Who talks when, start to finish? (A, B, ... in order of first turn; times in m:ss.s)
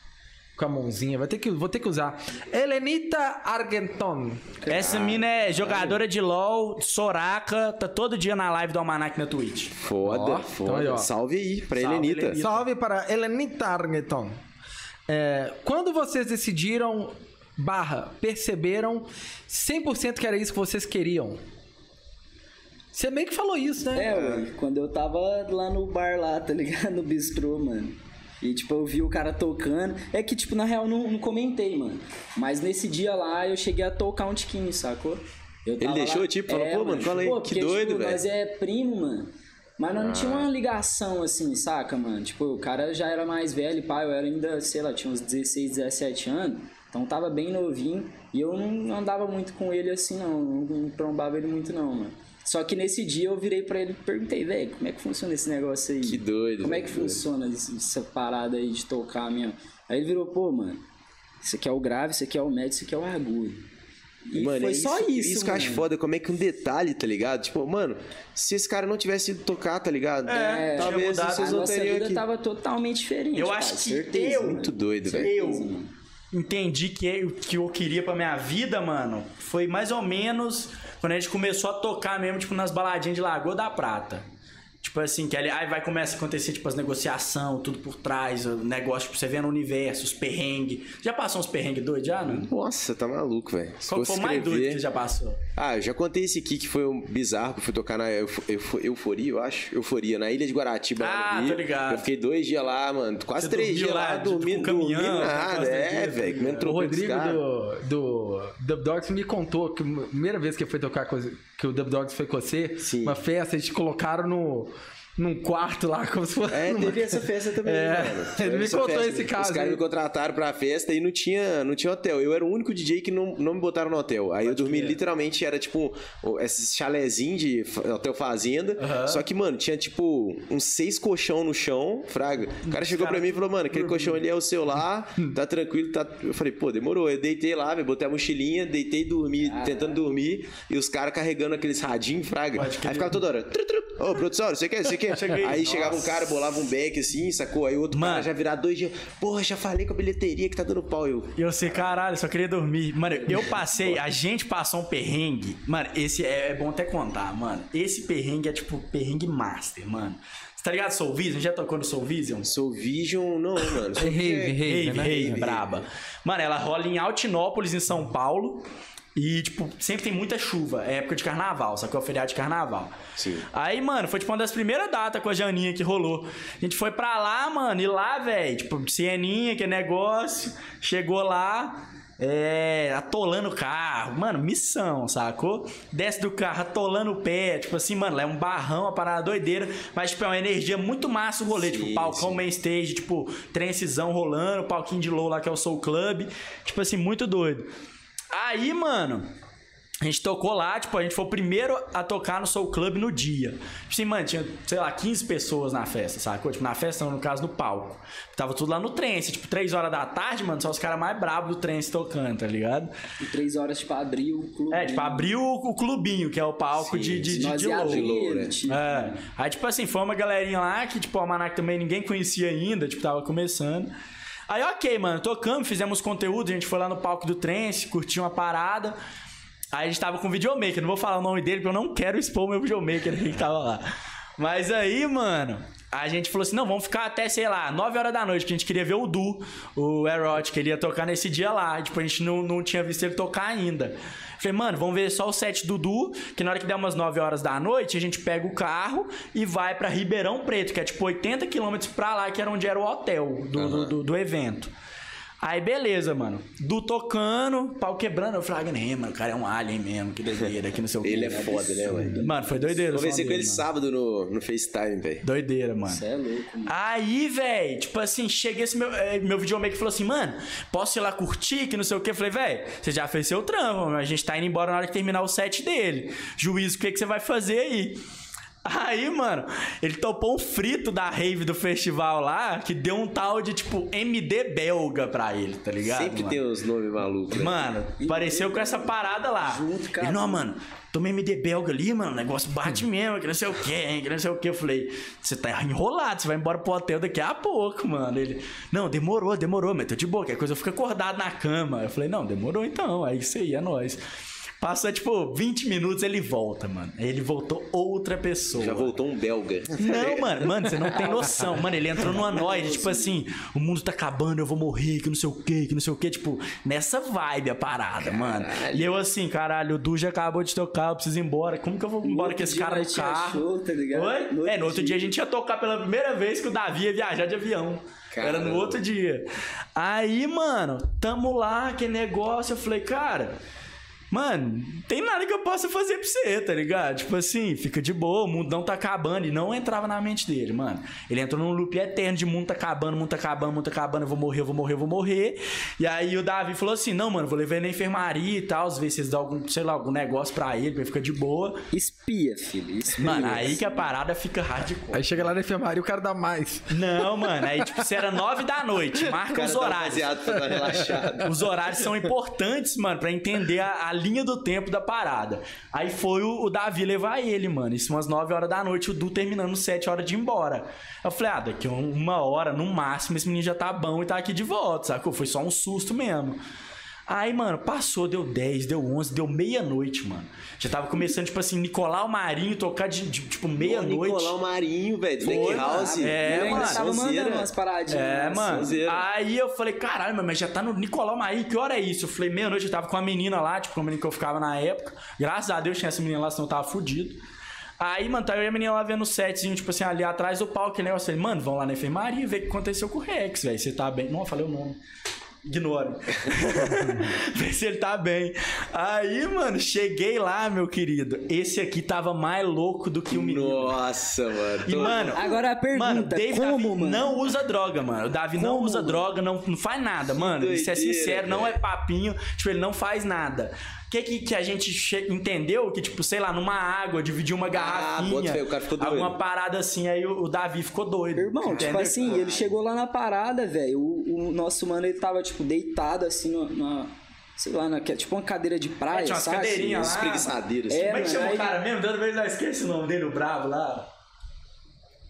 0:00.6-0:04.6 A
0:04.6-0:06.0 B
0:04.7-0:09.8 C
0:09.8-0:12.4 B
0:10.1-0:11.1 A
0:11.8-0:12.7 C
0:12.4-0:14.4 A
0:15.1-0:21.4 A
0:22.9-0:24.1 A
0:23.9-1:00.8 D
0:24.1-0:24.4 B
0:35.8-0:38.2 B
0:40.0-0:40.5 B
0:56.0-0:57.2 B
1:01.4-1:03.6 D
1:04.3-1:05.9 D
1:04.3-1:12.2 B
1:10.3-1:11.6 C
1:10.3-1:15.9 D
1:13.4-1:15.7 C
1:14.5-1:15.3 B
1:16.3-1:24.2 C
1:24.8-1:32.5 C
1:32.3-1:34.8 B
1:33.8-1:35.4 C
1:35.6-1:47.4 B
1:41.0-1:42.1 C
1:43.4-1:46.7 C
1:46.6-1:59.8 A
1:52.8-1:53.2 B
1:56.5-2:32.0 B
2:04.4-2:05.0 C
2:08.8-2:09.2 C
2:12.6-2:14.2 C
2:19.4-2:20.0 D
2:22.6-2:23.2 C
2:25.1-2:26.3 C
2:27.9-2:28.3 C
2:31.4-2:42.5 C
2:33.3-2:34.0 B
2:42.4-2:45.9 B
2:44.0-2:45.3 A
2:44.6-2:53.0 C
2:53.2-2:53.5 B
2:53.5-3:17.7 C
3:11.5-3:12.4 B
3:18.3-3:19.3 C
3:20.0-3:32.9 C
3:33.2-3:35.3 D
3:34.7-3:38.1 C
3:36.8-3:38.6 B
3:37.3-3:39.2 D
3:38.7-3:43.9 C
3:44.5-3:49.0 C
3:49.7-3:53.9 C
3:54.4-4:14.7 C
4:13.6-4:14.0 B
4:15.4-4:23.7 C
4:21.0-4:22.2 B
4:21.1-4:22.8 D
4:22.9-4:25.2 B
4:25.2-4:26.0 C
4:25.9-4:26.8 D
4:26.7-4:38.0 C
4:38.6-4:46.4 C
4:45.8-4:47.7 B
4:47.3-5:04.0 C
4:48.0-4:50.5 D
5:04.6-5:08.9 C
5:08.5-5:11.4 B
5:09.8-5:23.4 C
5:10.9-5:11.3 D
5:12.1-5:13.2 D
5:18.0-5:19.0 B
5:22.0-5:25.1 D
5:23.9-5:33.4 C
5:28.1-5:28.8 B
5:34.1-5:51.6 C
5:51.7-5:53.6 D
5:53.0-5:55.3 C
5:54.9-5:57.7 A
5:56.7-6:00.2 C
5:59.3-6:01.9 B
6:01.2-6:16.4 C
6:17.1-6:24.4 C
6:23.6-6:27.5 B
6:25.2-6:26.8 C
6:25.2-6:28.7 D
6:27.9-6:37.2 C
6:28.4-6:29.1 B
6:37.8-6:44.8 C
6:45.5-6:53.8 C
6:53.1-6:55.2 B
6:54.7-7:12.2 C
6:54.8-6:57.2 D
6:58.4-6:59.1 D
7:00.1-7:01.6 B
7:07.5-7:09.2 B
7:11.2-7:19.8 D
7:11.5-7:12.5 B
7:18.9-7:23.9 C
7:19.6-7:21.1 B
7:20.7-7:21.5 D